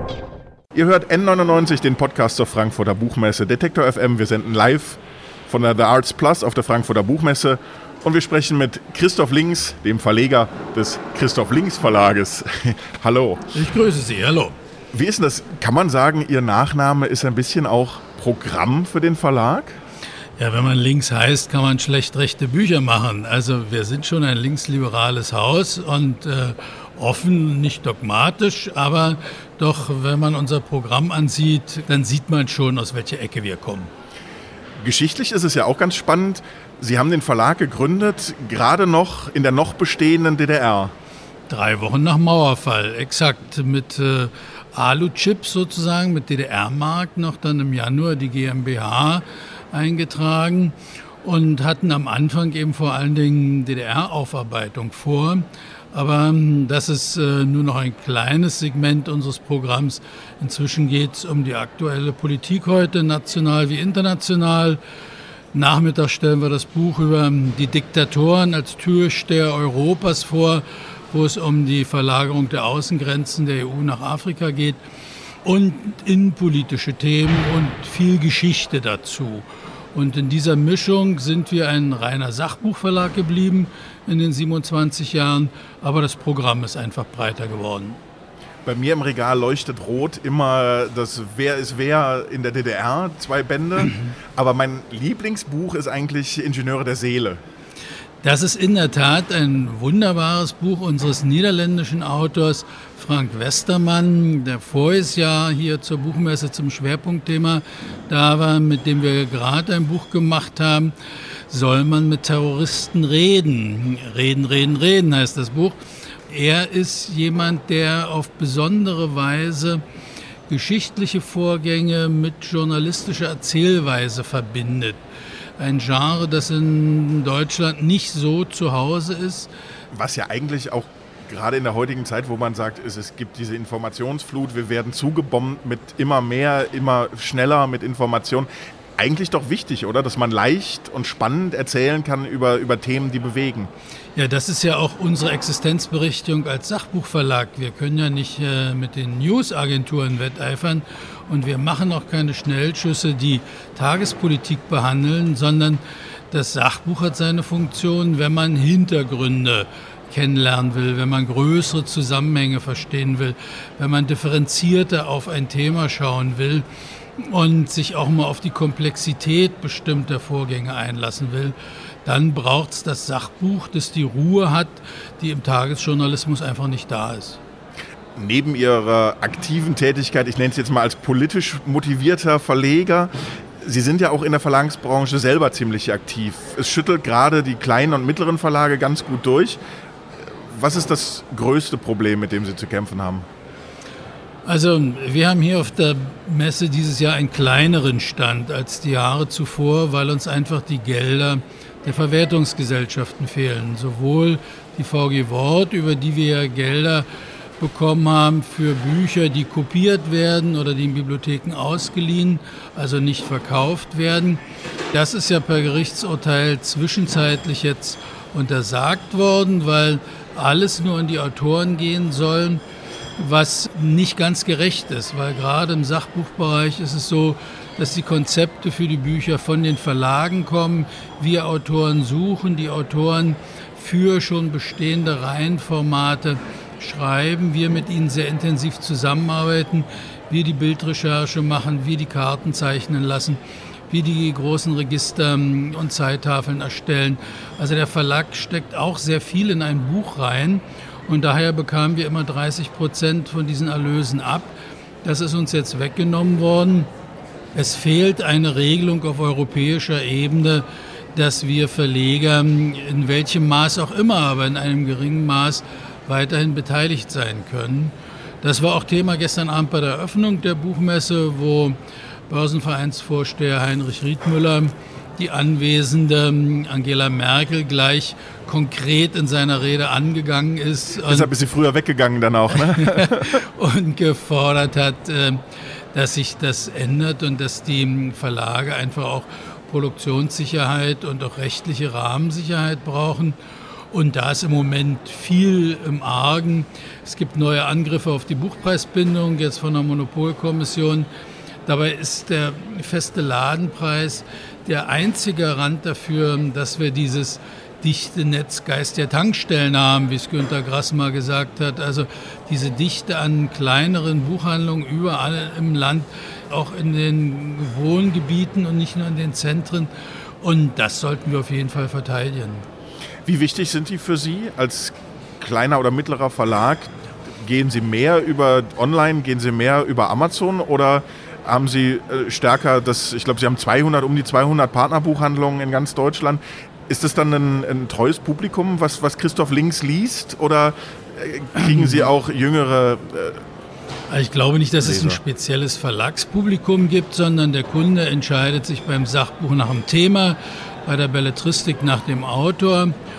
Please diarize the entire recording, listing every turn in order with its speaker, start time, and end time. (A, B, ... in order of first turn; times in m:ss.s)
0:00.7-0:13.5 A
0:13.5-0:14.6 B
0:14.9-0:19.8 A
0:20.4-0:33.9 B
0:34.8-0:40.9 A
0:41.5-1:04.8 B
1:05.5-1:14.8 B
1:15.4-1:28.0 B
1:28.6-1:37.4 A
1:38.2-1:50.9 B
1:51.5-1:59.8 B
2:00.5-2:05.0 B
2:05.6-2:09.5 B
2:09.9-2:23.7 A
2:24.1-2:57.4 B
2:58.2-3:09.6 A
3:10.5-3:13.3 A
3:14.4-3:27.1 B
3:27.6-3:42.6 B
3:43.2-4:16.9 B
4:17.5-4:31.8 B
4:32.3-4:41.3 B
4:41.0-4:43.4 A
4:42.5-4:53.4 B
4:53.9-5:01.1 B
5:01.6-5:22.6 B
5:23.2-5:26.9 A
5:27.4-5:43.4 A
5:41.6-5:42.1 B
5:44.1-5:52.9 B
5:44.8-5:45.2 A